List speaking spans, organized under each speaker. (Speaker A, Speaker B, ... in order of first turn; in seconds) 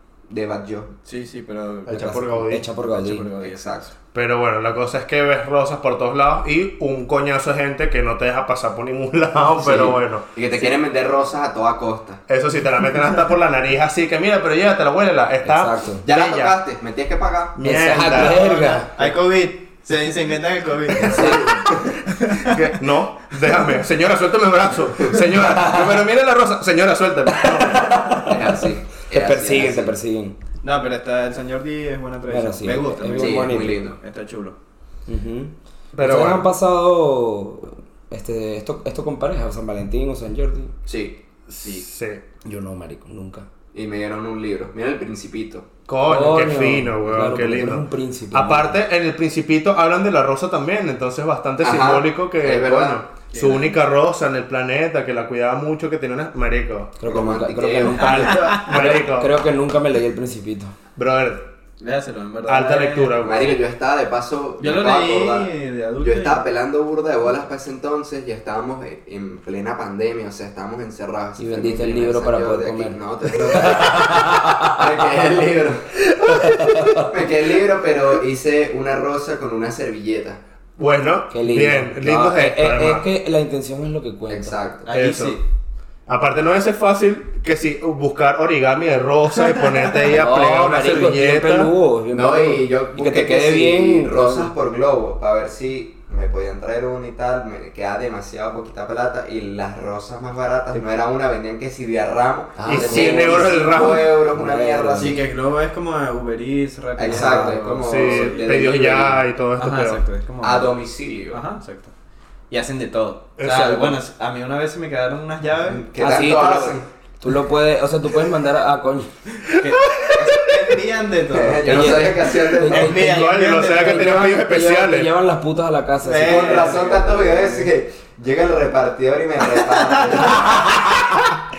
Speaker A: 0.3-0.9, 3.4-3.9, 9.6-12.2, 16.0-17.6, 21.0-21.8, 28.2-30.0, 33.1-34.0, 40.9-41.2, 43.7-45.7, 51.6-53.0, 57.0-58.4, 63.2-76.0, 76.9-80.4, 84.3-84.9, 92.1-105.3, 107.0-109.2, 110.4-111.4, 115.7-116.8, 121.3-123.0, 126.2-130.7
Speaker B: 1.0-3.7, 18.0-22.6, 30.6-34.6, 53.3-53.7, 61.8-63.6, 64.6-66.4, 84.8-85.4, 105.0-108.8, 109.6-110.8, 111.3-111.9, 112.5-116.7, 119.4-124.1, 126.0-127.7, 129.4-130.9
Speaker C: 1.9-2.6, 4.1-10.2, 12.3-16.5, 17.6-18.4, 22.4-28.1, 35.9-36.5, 41.5-42.2, 45.9-56.9, 58.0-59.3, 61.0-61.5, 62.5-63.6, 76.3-76.9, 80.8-83.1, 84.9-85.4, 86.1-91.7, 102.6-104.1, 107.8-110.0, 113.4-113.9, 119.6-120.7, 122.9-125.1
Speaker D: 1.9-3.3, 15.4-16.0, 17.6-18.9, 25.5-25.8, 27.3-28.5, 29.1-30.4, 32.3-33.8, 35.1-40.7, 42.4-43.5, 46.0-48.8, 57.0-60.7, 71.4-75.0, 76.3-77.0, 81.3-84.6, 90.1-94.5, 102.8-105.2, 107.0-107.7, 116.0-119.1, 121.6-126.8